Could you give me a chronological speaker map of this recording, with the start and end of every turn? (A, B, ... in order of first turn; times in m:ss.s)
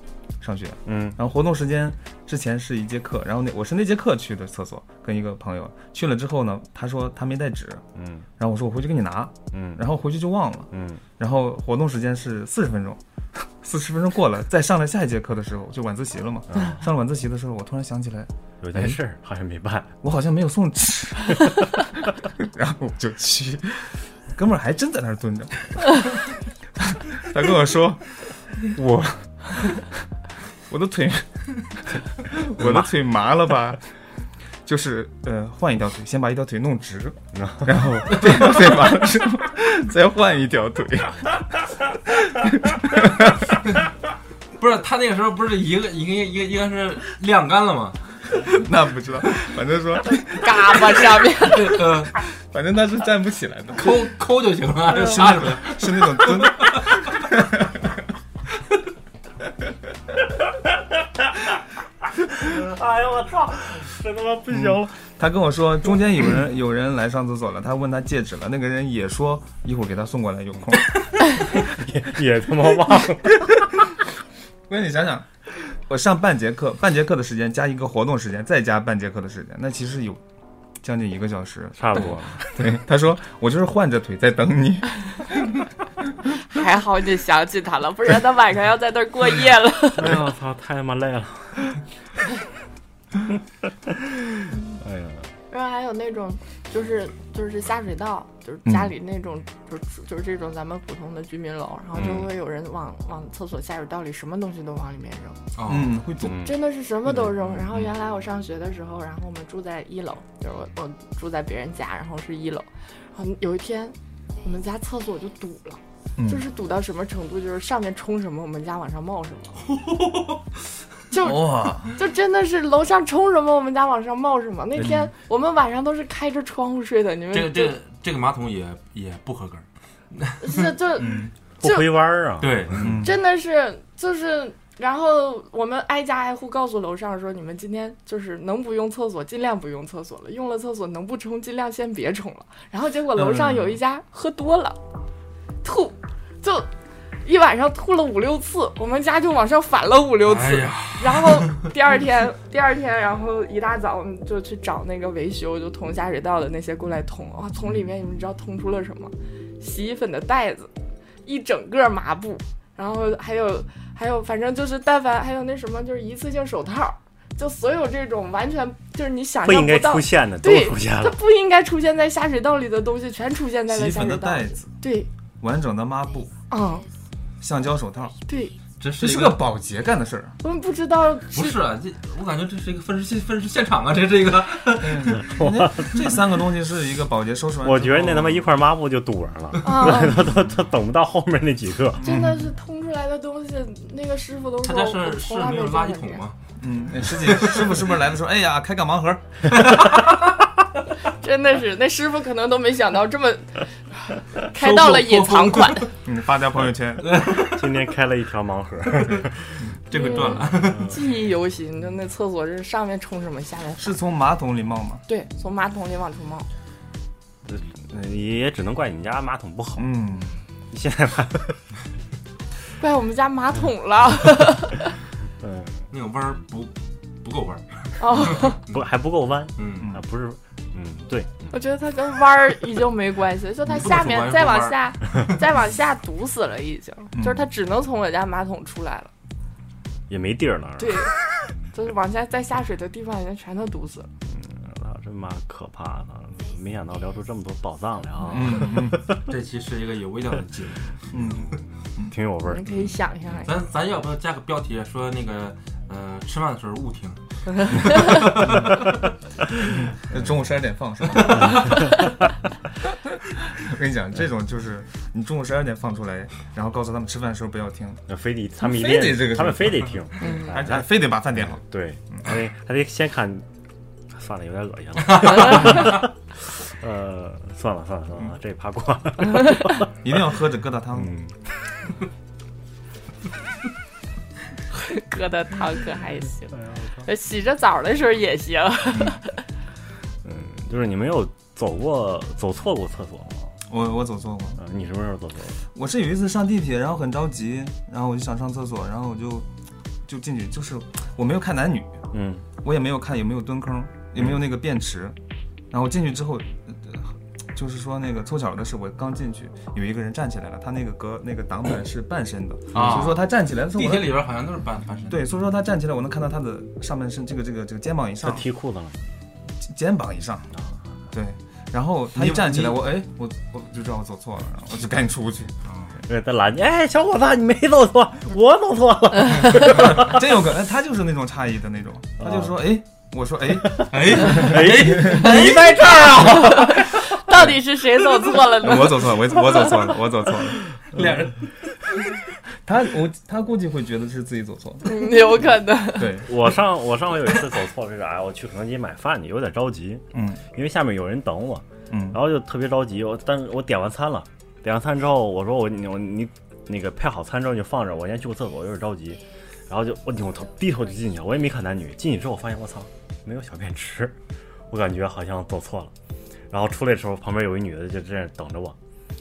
0:00.4-0:07.8 A
0:00.9-0:01.2 B
0:08.0-0:08.3 B
0:08.4-0:19.0 A
0:09.5-0:09.8 B
0:10.7-0:11.0 B
0:16.5-0:16.8 B
0:18.6-0:19.9 B
0:20.0-0:21.7 A
0:22.4-0:26.2 A
0:26.8-0:29.9 A
0:30.7-0:33.9 A
0:32.6-0:32.9 B
0:34.6-0:43.6 A
0:37.3-0:37.9 B
0:44.6-0:48.0 C
0:48.5-0:51.1 A
0:50.0-0:51.8 D
0:51.4-0:52.2 C
0:52.4-0:53.9 A
0:53.7-0:57.1 C
0:54.9-0:57.8 A
1:02.4-1:05.0 B
1:04.5-1:11.0 A
1:11.5-1:13.6 B
1:14.7-1:20.2 A
1:20.8-1:25.6 A
1:21.8-1:22.8 B
1:26.4-1:30.2 D
1:30.0-1:31.8 B
1:33.9-1:35.3 B
1:35.5-1:45.4 D
1:45.6-1:46.0 C
1:45.7-1:46.5 A
1:46.2-1:46.5 B
1:46.3-1:59.6 D
1:47.4-1:47.8 A
1:56.2-1:56.4 A
1:59.6-2:00.4 C
2:01.1-2:07.8 D
2:01.2-2:01.9 A
2:07.3-2:10.7 C
2:10.4-2:12.0 D
2:11.0-2:11.3 A
2:11.6-2:12.8 B
2:12.4-2:13.0 C
2:12.8-2:13.2 A
2:13.0-2:24.8 D
2:23.2-2:23.8 A
2:25.6-2:26.7 D
2:27.2-2:40.7 D
2:30.2-2:31.7 C
2:41.2-2:55.1 D
2:49.4-2:51.2 B
2:53.7-2:54.7 A
2:55.4-2:56.3 A
2:56.5-2:56.9 D
2:57.4-2:58.2 A
2:58.3-2:58.6 D
2:58.8-2:59.5 C
2:59.0-3:00.4 A
3:00.4-3:01.6 D
3:01.3-3:05.3 C
3:04.8-3:08.5 A
3:05.2-3:06.2 B
3:07.6-3:12.1 B
3:09.6-3:10.2 D
3:12.0-3:12.5 A
3:12.0-3:16.2 D
3:14.6-3:16.4 C
3:16.6-3:19.4 A
3:17.2-3:17.9 C
3:19.6-3:20.2 C
3:21.1-3:25.9 D
3:24.5-3:25.9 C
3:26.0-3:27.2 A
3:27.0-3:27.7 C
3:27.5-3:29.6 B
3:28.9-3:29.2 C
3:29.9-3:31.0 C
3:29.9-3:33.9 D
3:33.8-3:35.0 A
3:35.1-3:36.5 D
3:37.5-3:39.9 B
3:39.8-3:40.4 A
3:40.7-3:41.6 B
3:42.8-3:44.9 D
3:45.4-3:45.8 B
3:45.9-3:48.8 C
3:48.0-3:48.6 D
3:48.4-3:51.5 B
3:49.6-3:50.0 C
3:51.5-3:59.1 D
3:53.7-3:55.4 C
3:57.2-3:57.5 A
4:00.1-4:01.1 B
4:00.8-4:01.2 D
4:01.7-4:04.1 D
4:04.3-4:09.2 B
4:08.3-4:09.0 A
4:09.1-4:11.2 C
4:11.1-4:12.2 A
4:11.2-4:11.5 B
4:12.1-4:12.7 B
4:12.5-4:13.6 D
4:12.7-4:19.0 C
4:18.4-4:18.7 A
4:19.7-4:22.0 A
4:21.2-4:21.5 C
4:21.4-4:22.1 B
4:23.1-4:28.0 A
4:28.1-4:33.5 B
4:28.6-4:32.3 A
4:30.2-4:30.5 D
4:34.1-4:39.9 B
4:35.3-4:35.6 D
4:40.0-4:41.1 A
4:41.0-4:41.4 B
4:44.7-4:49.4 D
4:46.6-4:47.1 B
4:50.2-4:53.5 B
4:53.7-4:54.6 A
4:54.6-4:55.6 B
4:55.7-4:59.5 A
5:00.1-5:02.0 A
5:02.1-5:02.5 B
5:02.6-5:05.2 A
5:05.7-5:14.2 A
5:12.7-5:15.3 C
5:15.1-5:18.5 A
5:18.2-5:19.0 B
5:19.6-5:20.5 A
5:21.1-5:25.6 A
5:22.1-5:22.9 C
5:25.7-5:25.9 C
5:26.1-5:30.2 B
5:29.6-5:35.7 A
5:32.2-5:32.6 B
5:33.8-5:36.8 B
5:33.9-5:36.7 C
5:35.5-5:39.8 D
5:38.6-5:41.3 A
5:41.0-5:41.4 C
5:42.6-5:45.1 A
5:44.8-5:46.3 D
5:45.9-5:46.5 A
5:46.2-6:04.2 B
5:50.1-5:50.4 A
5:51.9-5:52.2 A
6:04.7-6:05.9 B
6:06.5-6:08.8 B